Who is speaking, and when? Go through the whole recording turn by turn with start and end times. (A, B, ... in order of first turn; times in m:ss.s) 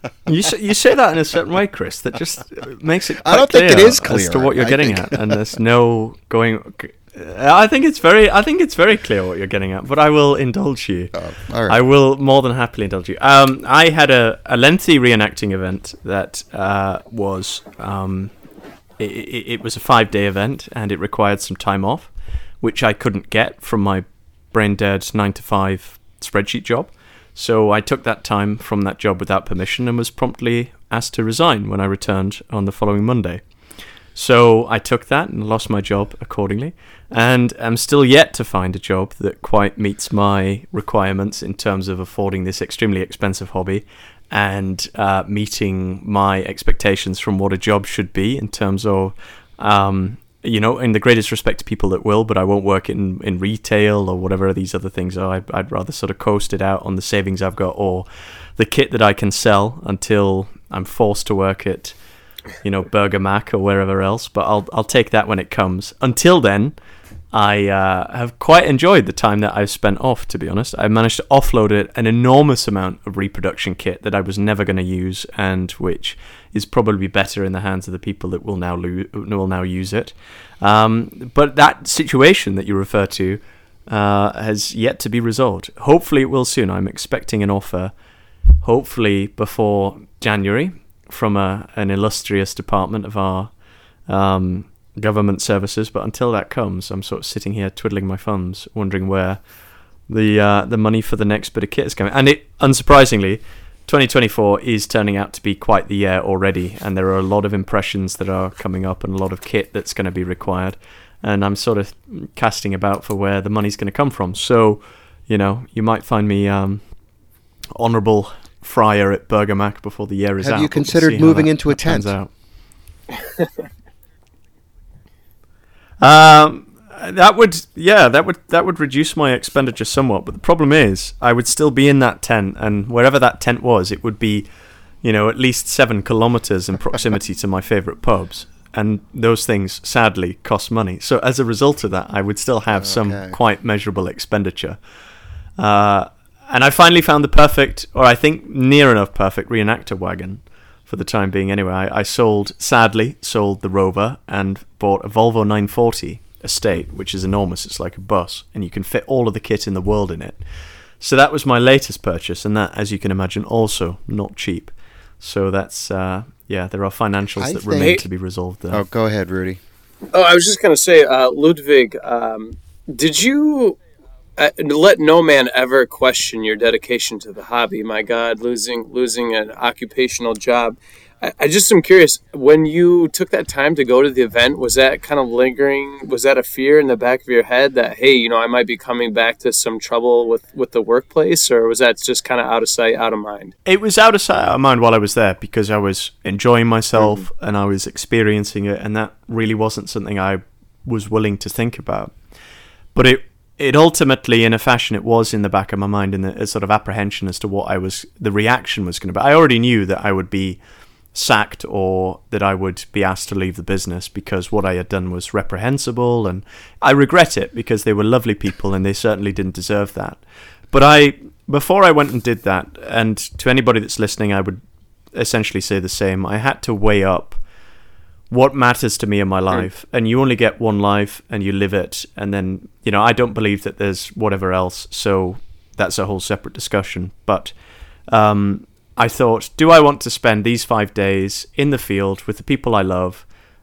0:00.3-0:18.3 A
0:03.2-0:05.6 B
0:11.1-0:11.8 B
0:19.0-0:33.4 A
0:34.2-1:02.0 A
1:02.6-1:06.8 A
1:07.3-1:27.9 A
1:28.6-1:33.5 A
1:34.1-1:39.4 A
1:40.1-1:56.8 A
1:57.8-2:02.3 A
2:00.4-2:02.1 B
2:06.0-2:14.5 A
2:15.0-2:24.8 A
2:22.7-2:23.4 B
2:25.6-2:40.4 A
2:41.0-2:48.8 A
2:47.4-2:48.0 B
2:48.7-2:49.6 B
2:50.1-2:53.8 C
2:54.4-3:13.5 C
3:13.7-3:22.2 A
3:23.0-3:30.6 A
3:31.1-3:40.2 A
3:40.7-3:44.6 A
3:45.1-3:47.4 A
3:48.3-3:57.5 A
3:58.1-4:03.3 A